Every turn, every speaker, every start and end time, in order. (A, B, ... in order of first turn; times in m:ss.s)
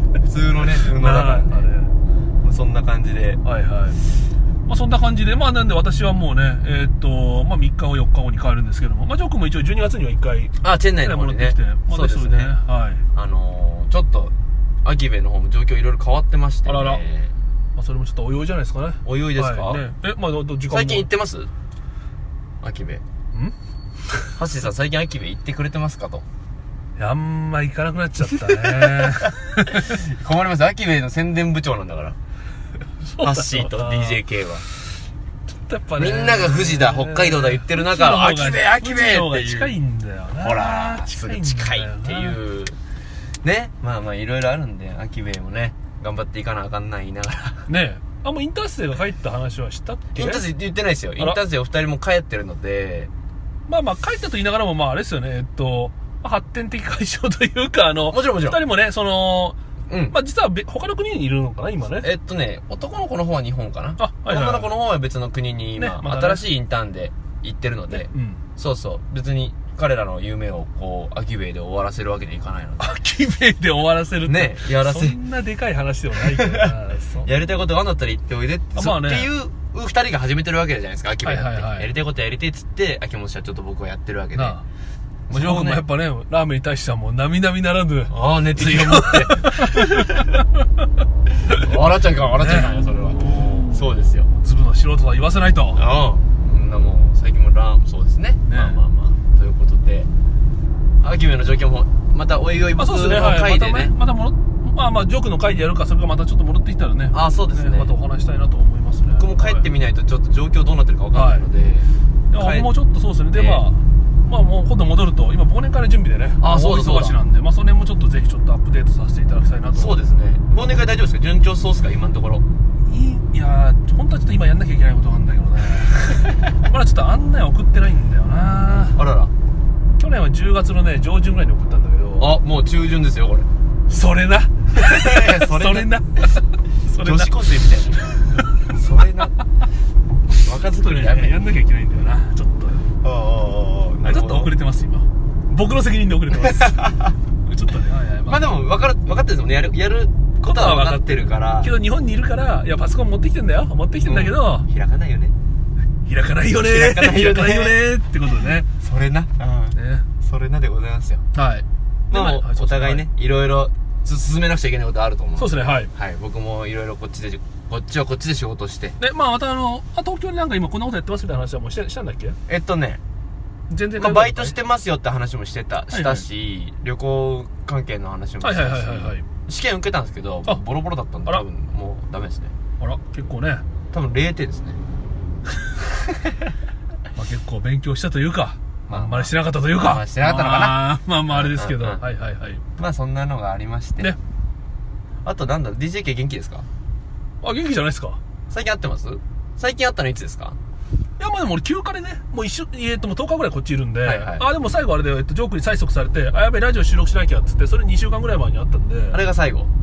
0:00.2-0:01.7 A
0:00.8-0:01.9 B
0:02.4-0:03.4 A
0:03.4-0:04.0 B
0:04.7-0:13.0 B
0:10.6-0:12.5 A
0:13.2-0:14.3 A
0:14.8-0:17.3 A
0:16.7-0:17.0 B
0:17.8-0:21.1 B
0:19.0-0:19.8 A
0:20.7-0:21.5 A
0:22.6-0:23.0 A
0:24.4-0:26.2 A
0:27.0-0:29.9 B
0:29.7-0:32.2 A
0:33.0-0:34.2 B
0:33.2-0:34.6 A
0:35.6-0:42.4 B
0:36.0-0:39.8 A
0:40.4-0:42.8 A
0:43.4-0:47.7 A
0:47.7-0:50.4 B
0:50.2-0:53.1 A
0:53.7-0:59.6 B
0:58.1-0:58.6 A
0:59.9-1:00.2 A
1:00.1-1:02.1 B
1:01.9-1:12.9 A
1:04.0-1:04.7 B
1:05.8-1:06.4 B
1:07.9-1:08.4 B
1:12.8-1:17.3 B
1:14.2-1:15.2 A
1:16.3-1:24.6 A
1:18.8-1:19.3 B
1:21.2-1:21.9 B
1:24.4-1:24.6 B
1:25.3-1:25.9 A
1:25.3-1:30.0 B
1:28.1-1:30.0 A
1:31.5-1:34.3 A
1:32.4-1:32.7 B
1:33.4-1:33.6 B
1:34.4-1:35.8 B
1:35.8-1:40.1 A
1:38.5-1:38.8 B
1:41.0-1:43.9 A
1:42.8-1:49.7 B
1:47.1-1:47.9 A
1:49.2-1:52.7 A
1:51.1-1:51.5 B
1:52.3-2:00.0 B
1:53.3-1:53.6 A
1:56.4-1:57.2 A
1:59.7-2:02.4 A
2:02.9-2:09.0 B
2:08.9-2:09.3 A
2:10.0-2:12.3 B
2:12.2-2:13.5 A
2:13.9-2:17.4 B
2:14.8-2:15.9 A
2:17.0-2:19.4 A
2:20.4-2:21.4 A
2:20.8-2:22.8 B
2:23.0-2:24.5 A
2:24.0-2:26.8 B
2:26.3-2:27.2 A
2:27.5-2:28.5 B
2:28.3-2:31.7 A
2:30.4-2:34.7 B
2:34.0-2:35.4 A
2:36.0-2:38.7 B
2:36.6-2:37.8 A
2:38.7-2:41.2 A
2:39.8-2:40.0 B
2:41.3-2:43.1 B
2:42.1-2:49.0 A
2:45.4-2:45.9 B
2:49.0-2:52.4 B
2:52.5-2:53.0 A
2:53.7-2:54.6 B
2:54.0-3:02.5 A
2:55.9-2:56.2 B
2:58.4-2:59.2 B
3:02.8-3:03.6 B
3:03.9-3:04.8 A
3:07.2-3:12.6 B
3:08.9-3:10.8 A
3:11.3-3:12.0 A
3:12.8-3:14.2 A
3:15.2-3:16.7 A
3:17.4-3:18.2 B
3:18.5-3:20.6 A
3:21.2-3:29.2 B
3:24.0-3:24.5 A
3:29.1-3:29.7 A